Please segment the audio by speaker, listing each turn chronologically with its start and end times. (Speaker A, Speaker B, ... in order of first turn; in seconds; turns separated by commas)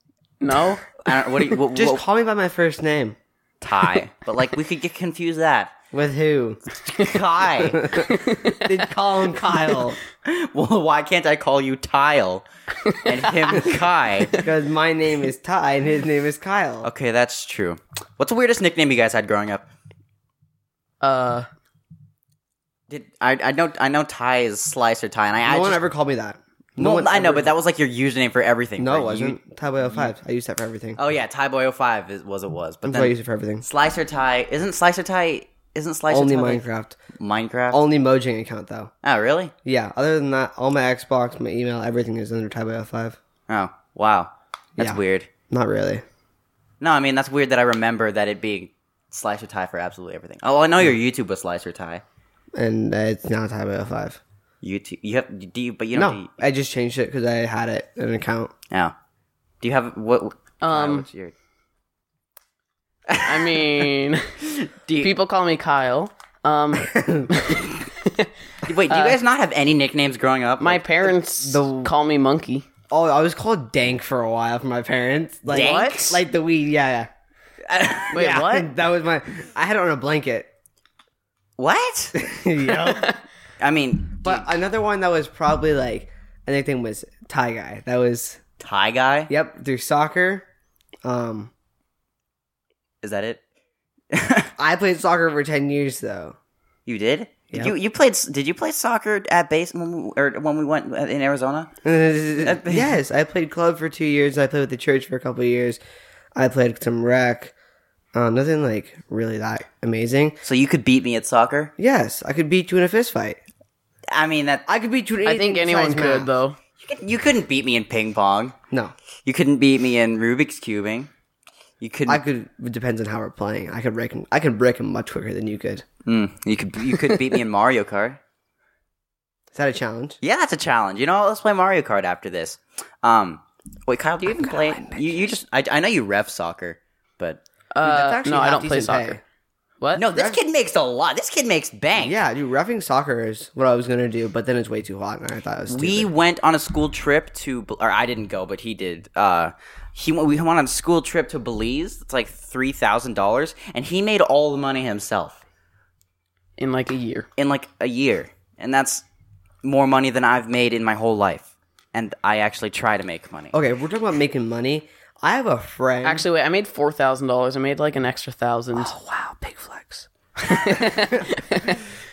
Speaker A: 0.4-0.9, Speaker B: 1.0-2.0, Speaker C: 1.7-3.2, Speaker B: 3.6-5.7, Speaker C: 5.9-6.6, Speaker B: 6.8-8.0, Speaker C: 7.7-10.0, Speaker A: 7.9-8.7, Speaker B: 10.2-14.3, Speaker A: 12.9-13.7, Speaker C: 14.4-16.9, Speaker B: 16.8-19.7, Speaker A: 21.0-21.5, Speaker B: 22.9-25.8, Speaker C: 25.5-27.5, Speaker B: 26.8-30.1, Speaker C: 28.8-31.0, Speaker B: 31.0-37.8, Speaker C: 32.8-33.6, Speaker C: 36.1-37.0, Speaker C: 37.7-38.9, Speaker B: 39.0-39.5, Speaker C: 39.6-43.2, Speaker B: 43.5-45.3, Speaker C: 44.8-46.0, Speaker B: 46.8-52.0, Speaker C: 52.5-54.2, Speaker B: 54.6-56.3, Speaker C: 55.9-58.5, Speaker B: 59.6-61.3, Speaker A: 60.6-61.1, Speaker B: 63.1-63.8, Speaker A: 63.2-64.3, Speaker B: 64.4-65.1, Speaker A: 65.0-68.3, Speaker C: 66.8-67.3, Speaker B: 68.6-70.8, Speaker A: 68.9-69.2, Speaker A: 70.6-72.7, Speaker C: 71.1-71.9, Speaker C: 72.9-77.1, Speaker B: 75.5-76.2, Speaker A: 75.5-76.2, Speaker B: 77.7-78.2, Speaker A: 78.1-78.7, Speaker C: 78.1-80.5, Speaker B: 81.6-82.4, Speaker C: 82.2-83.1, Speaker A: 82.8-83.2, Speaker B: 83.6-84.5, Speaker C: 84.2-88.4, Speaker B: 88.6-89.3, Speaker C: 89.3-90.5, Speaker C: 91.0-91.5, Speaker B: 93.0-93.4, Speaker B: 94.1-94.5, Speaker C: 94.6-96.4, Speaker B: 96.9-101.7, Speaker C: 101.8-105.8, Speaker B: 102.4-103.0, Speaker C: 106.3-107.5, Speaker C: 108.1-110.4, Speaker B: 110.4-111.7, Speaker C: 111.8-113.4, Speaker B: 114.1-114.7, Speaker C: 114.7-116.3, Speaker A: 115.2-116.6, Speaker B: 116.8-118.5, Speaker B: 119.2-121.1, Speaker B: 121.8-122.2, Speaker C: 122.1-125.8, Speaker B: 126.1-128.2, Speaker C: 129.5-130.2, Speaker B: 130.2-137.4, Speaker C: 134.3-135.2, Speaker A: 137.7-139.2, Speaker C: 137.8-139.2, Speaker B: 140.0-142.2, Speaker C: 140.1-140.4, Speaker C: 142.0-146.1, Speaker B: 145.7-155.4, Speaker A: 156.6-157.3, Speaker B: 157.4-159.0, Speaker B: 159.6-163.6, Speaker C: 163.5-166.2, Speaker A: 166.0-168.9, Speaker C: 168.7-170.1, Speaker A: 170.4-171.8, Speaker B: 170.5-170.8, Speaker C: 171.0-171.3